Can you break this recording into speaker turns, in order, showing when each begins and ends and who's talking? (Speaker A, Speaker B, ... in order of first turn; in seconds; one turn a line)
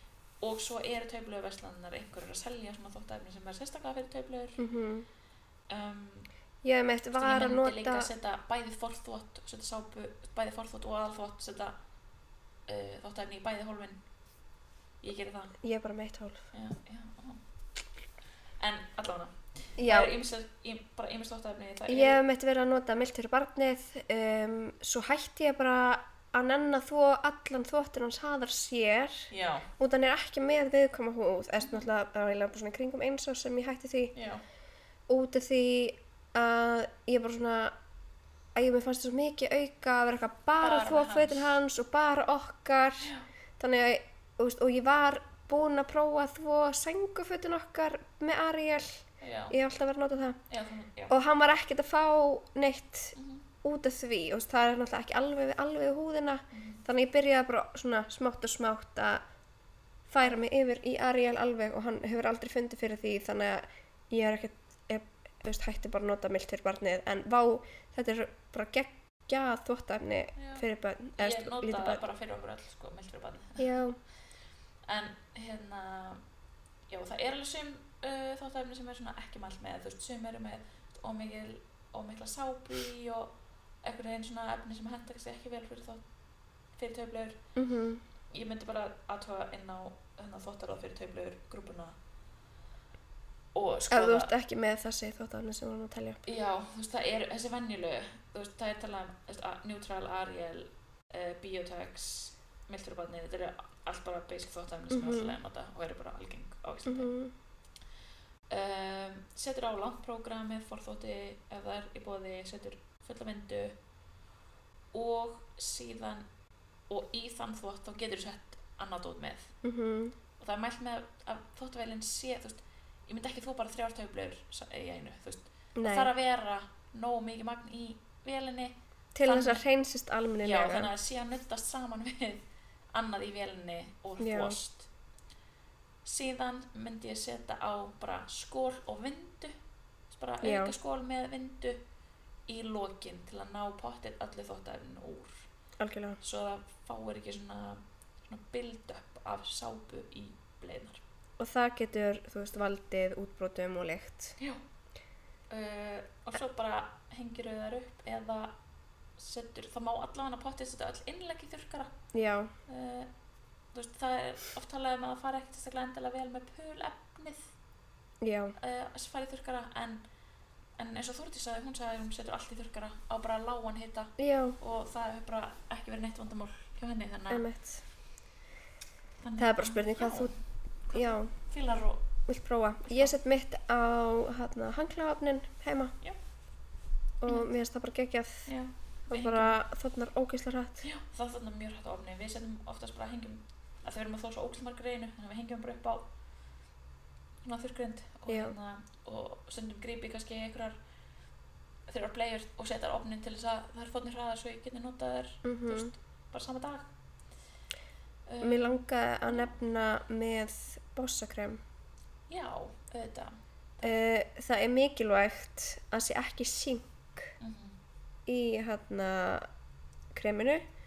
Speaker A: 0.4-4.6
Speaker B: 4.6-5.1
Speaker A: 5.7-6.3
Speaker B: 6.6-8.1
Speaker A: 7.2-11.8
Speaker A: 12.7-14.0
Speaker A: 15.0-15.6
Speaker B: 15.6-16.4
Speaker A: 16.5-17.4
Speaker A: 18.6-22.2
Speaker B: 19.8-20.1
Speaker B: 21.9-34.1
Speaker A: 29.3-29.7
Speaker A: 34.1-34.4
Speaker B: 35.1-37.8
Speaker B: 38.5-50.4
Speaker A: 40.6-41.6
Speaker A: 43.0-43.3
Speaker A: 49.2-49.6
Speaker A: 50.5-51.1
Speaker B: 51.1-59.2
Speaker A: 53.1-53.5
Speaker A: 56.5-56.8
Speaker B: 60.1-72.0
Speaker A: 70.4-70.7
Speaker A: 71.2-73.8
Speaker B: 73.6-74.0
Speaker A: 74.9-76.2
Speaker A: 76.9-83.3
Speaker A: 83.8-86.0
Speaker A: 86.8-87.4
Speaker B: 87.6-88.0
Speaker A: 88.3-92.0
Speaker A: 93.5-94.3
Speaker B: 93.9-96.2
Speaker A: 96.2-107.1
Speaker B: 104.9-105.3
Speaker B: 106.9-107.3
Speaker A: 108.5-113.8
Speaker A: 114.9-116.3
Speaker A: 116.9-119.5
Speaker B: 119.6-120.2
Speaker A: 120.4-128.7
Speaker B: 125.8-126.1
Speaker B: 129.2-130.9
Speaker A: 129.2-129.6
Speaker A: 130.4-134.9
Speaker B: 134.2-134.6
Speaker A: 136.1-139.5
Speaker A: 140.1-141.8
Speaker B: 140.4-140.7
Speaker A: 142.5-145.4
Speaker B: 145.8-146.2
Speaker A: 146.2-151.0
Speaker B: 151.4-154.3
Speaker A: 155.5-158.5
Speaker A: 159.2-161.9
Speaker B: 162.1-162.5
Speaker A: 162.7-163.1
Speaker A: 163.7-167.5
Speaker B: 168.2-168.6
Speaker A: 168.6-170.0
Speaker A: 170.8-177.4
Speaker B: 174.2-174.6
Speaker B: 177.3-177.8
Speaker A: 179.2-180.4
Speaker B: 179.4-180.3
Speaker A: 180.9-182.0
Speaker B: 180.9-181.3
Speaker B: 182.3-185.9
Speaker A: 182.9-183.2
Speaker B: 187.2-188.5
Speaker A: 188.5-189.6
Speaker B: 189.1-190.8
Speaker A: 190.8-196.1
Speaker A: 197.4-200.8
Speaker A: 201.9-206.9
Speaker B: 205.4-205.9
Speaker A: 208.3-209.5
Speaker B: 208.4-211.6
Speaker A: 212.3-214.0
Speaker B: 213.8-217.3
Speaker A: 217.4-217.8
Speaker B: 218.3-219.5
Speaker B: 220.1-220.6